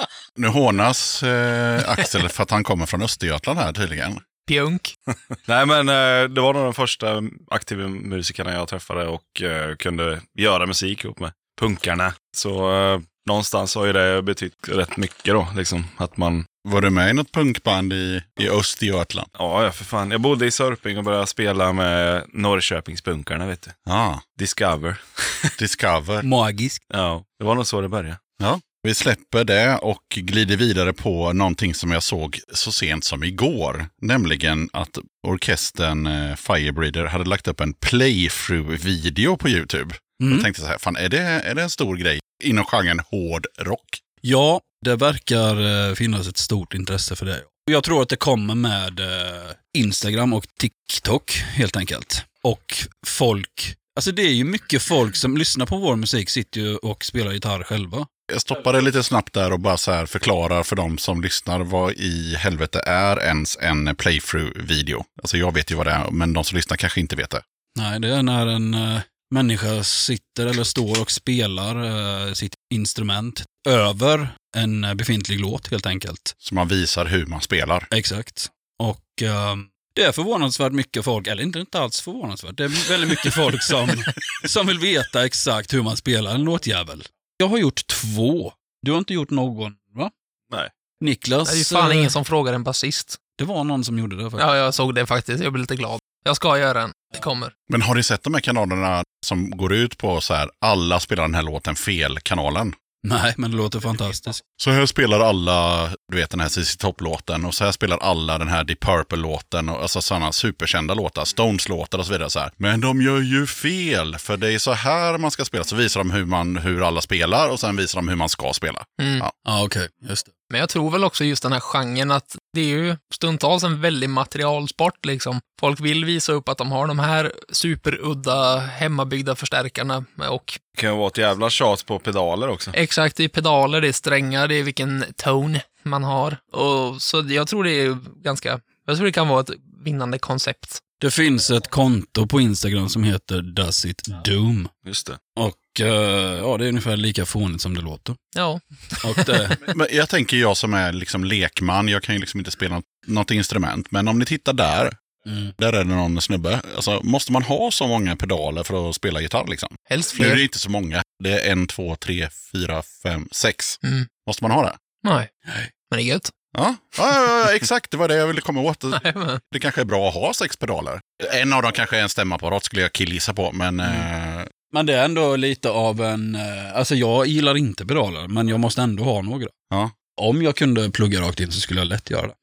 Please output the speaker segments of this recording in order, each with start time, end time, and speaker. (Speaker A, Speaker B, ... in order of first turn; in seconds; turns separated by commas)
Speaker A: 0.3-4.2, Speaker B: 4.5-4.9, Speaker C: 5.5-16.5, Speaker A: 16.6-19.3, Speaker C: 19.4-23.8, Speaker A: 23.9-24.2, Speaker C: 24.4-25.5, Speaker A: 25.6-26.2, Speaker D: 26.2-26.8, Speaker C: 26.9-28.2, Speaker A: 28.4-44.0, Speaker D: 40.2-40.5, Speaker D: 44.2-58.1, Speaker A: 58.3-67.4, Speaker D: 67.7-76.3, Speaker A: 76.4-77.9, Speaker D: 77.9-90.1, Speaker D: 91.0-92.1, Speaker B: 91.5-93.2, Speaker D: 93.3-94.5, Speaker B: 94.4-97.5, Speaker A: 97.7-102.7, Speaker D: 103.0-104.4, Speaker A: 104.6-119.3, Speaker B: 119.0-119.2, Speaker D: 119.4-120.3, Speaker B: 120.5-130.6, Speaker C: 130.8-132.7, Speaker B: 132.7-140.8, Speaker D: 141.0-144.7, Speaker C: 144.8-145.2, Speaker D: 145.3-148.2, Speaker B: 148.3-149.4, Speaker D: 149.0-149.6, Speaker A: 149.7-155.0, Speaker D: 155.2-155.5, Speaker A: 155.6-164.8, Speaker B: 159.9-160.4, Speaker B: 165.0-165.3, Speaker D: 165.4-165.7, Speaker B: 165.9-166.3, Speaker A: 166.5-174.5, Speaker B: 168.9-169.4, Speaker D: 174.7-179.5, Speaker A: 179.7-179.9, Speaker D: 180.2-182.3